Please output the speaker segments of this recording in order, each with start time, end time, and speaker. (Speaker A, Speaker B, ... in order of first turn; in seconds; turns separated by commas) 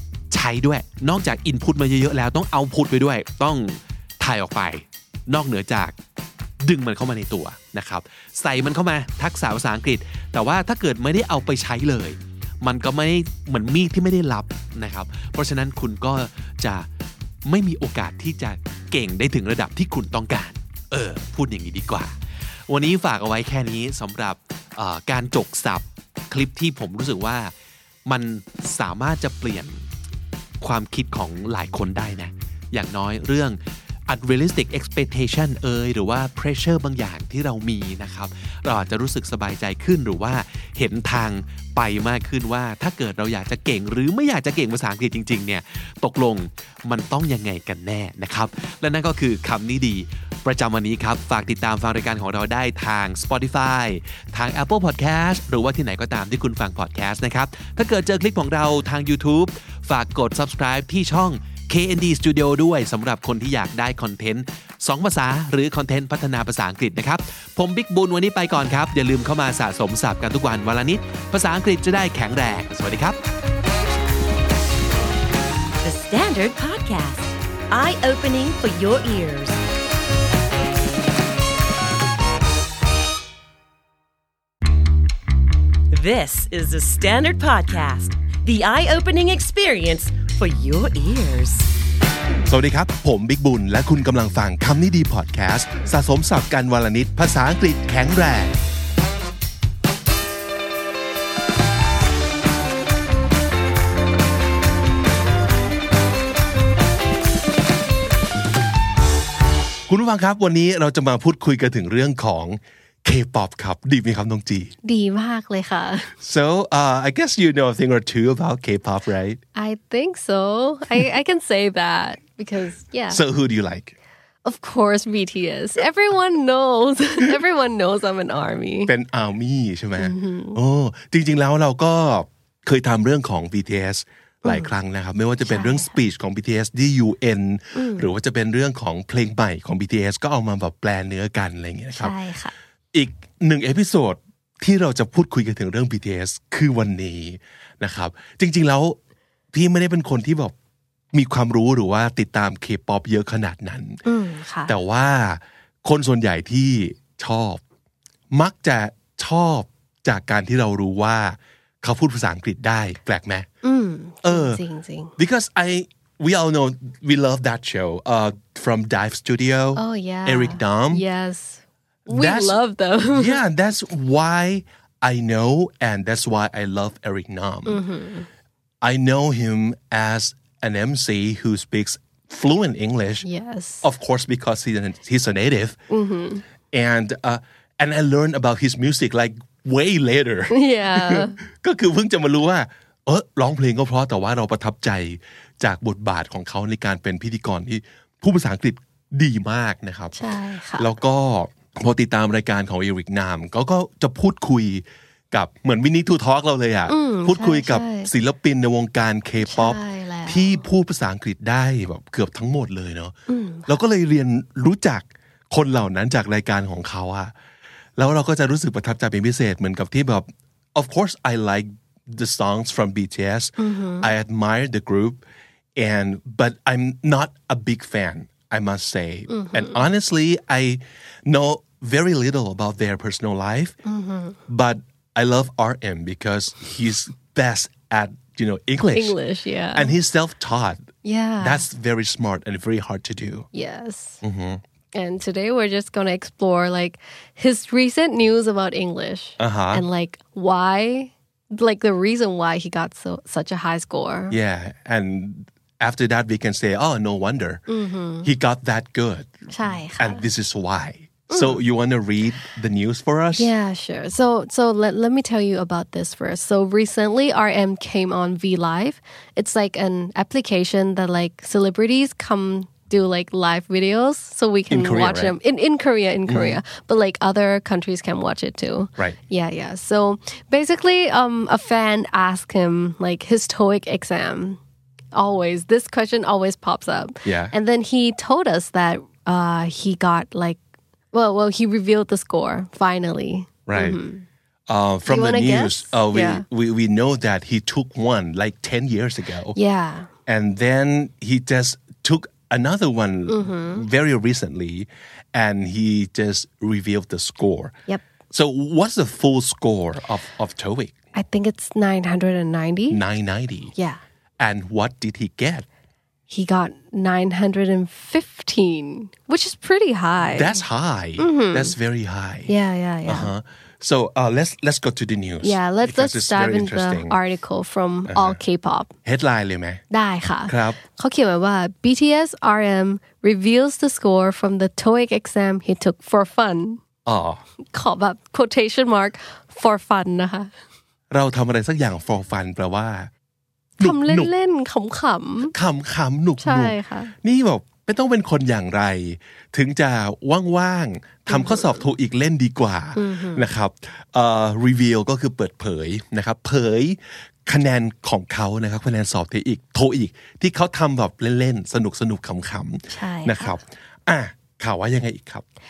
Speaker A: 0.3-6.0, Speaker A: 6.6-16.9, Speaker A: 17.4-27.5, Speaker A: 28.1-29.8, Speaker A: 30.6-73.2, Speaker B: 75.8-79.6, Speaker B: 85.9-91.7, Speaker C: 92.5-98.5, Speaker C: 109.9-114.7, Speaker D: 114.8-116.1, Speaker C: 116.2-119.4, Speaker D: 119.5-123.2, Speaker C: 123.1-123.9, Speaker D: 124.4-128.9, Speaker C: 128.9-142.2, Speaker D: 130.0-130.6, Speaker D: 134.4-134.7, Speaker D: 135.4-135.9, Speaker D: 137.7-138.1, Speaker D: 141.9-142.5, Speaker C: 142.9-149.0, Speaker C: 149.5-150.5, Speaker C: 151.1-154.0, Speaker D: 154.1-154.7, Speaker C: 154.7-157.6, Speaker C: 158.3-163.5, Speaker D: 163.6-165.2, Speaker C: 164.2-164.6, Speaker C: 165.2-171.0, Speaker D: 169.7-173.4, Speaker C: 172.1-172.6, Speaker C: 173.1-177.8, Speaker D: 177.7-178.3, Speaker C: 178.8-183.3, Speaker D: 183.2-183.8, Speaker C: 183.8-185.8, Speaker D: 185.9-186.4, Speaker C: 186.7-200.2, Speaker D: 190.5-191.3, Speaker D: 200.2-200.9, Speaker C: 200.8-213.1, Speaker D: 206.9-208.1, Speaker D: 209.4-210.6, Speaker D: 213.3-213.7, Speaker C: 213.7-217.3, Speaker C: 218.0-225.2, Speaker D: 223.6-224.1, Speaker C: 225.8-233.8, Speaker D: 229.3-229.8, Speaker D: 233.8-234.4, Speaker C: 234.5-239.2, Speaker D: 238.9-239.9, Speaker C: 239.7-243.5, Speaker D: 241.0-241.7, Speaker D: 243.5-244.2, Speaker C: 244.2-244.6, Speaker D: 244.9-254.3, Speaker C: 249.4-249.8, Speaker C: 254.3-257.6, Speaker D: 257.7-258.3, Speaker C: 258.2-263.5, Speaker D: 259.5-260.2, Speaker D: 261.3-261.6, Speaker D: 263.4-284.6, Speaker C: 274.7-275.3, Speaker C: 276.3-276.6, Speaker D: 285.1-294.2, Speaker C: 287.2-287.6, Speaker C: 293.7-294.0, Speaker C: 294.7-299.6, Speaker D: 295.1-296.4, Speaker D: 299.5-300.1, Speaker C: 300.3-307.8, Speaker D: 303.3-303.8, Speaker C: 308.3-311.0, Speaker D: 311.1-313.0, Speaker C: 312.9-313.7, Speaker D: 313.7-314.0, Speaker C: 314.4-315.6, Speaker D: 316.3-320.6, Speaker C: 320.3-322.5, Speaker D: 321.2-321.7, Speaker D: 322.5-323.3, Speaker C: 323.1-327.2, Speaker D: 325.4-328.9, Speaker C: 328.1-328.4, Speaker C: 329.1-329.8, Speaker D: 329.9-336.8, Speaker C: 330.5-330.8, Speaker C: 337.1-337.4, Speaker D: 337.7-340.5, Speaker C: 341.1-343.1, Speaker D: 343.8-345.5, Speaker C: 343.8-344.3, Speaker C: 345.5-365.4, Speaker D: 346.4-347.1, Speaker D: 351.3-351.8, Speaker D: 352.9-353.4, Speaker D: 362.9-363.6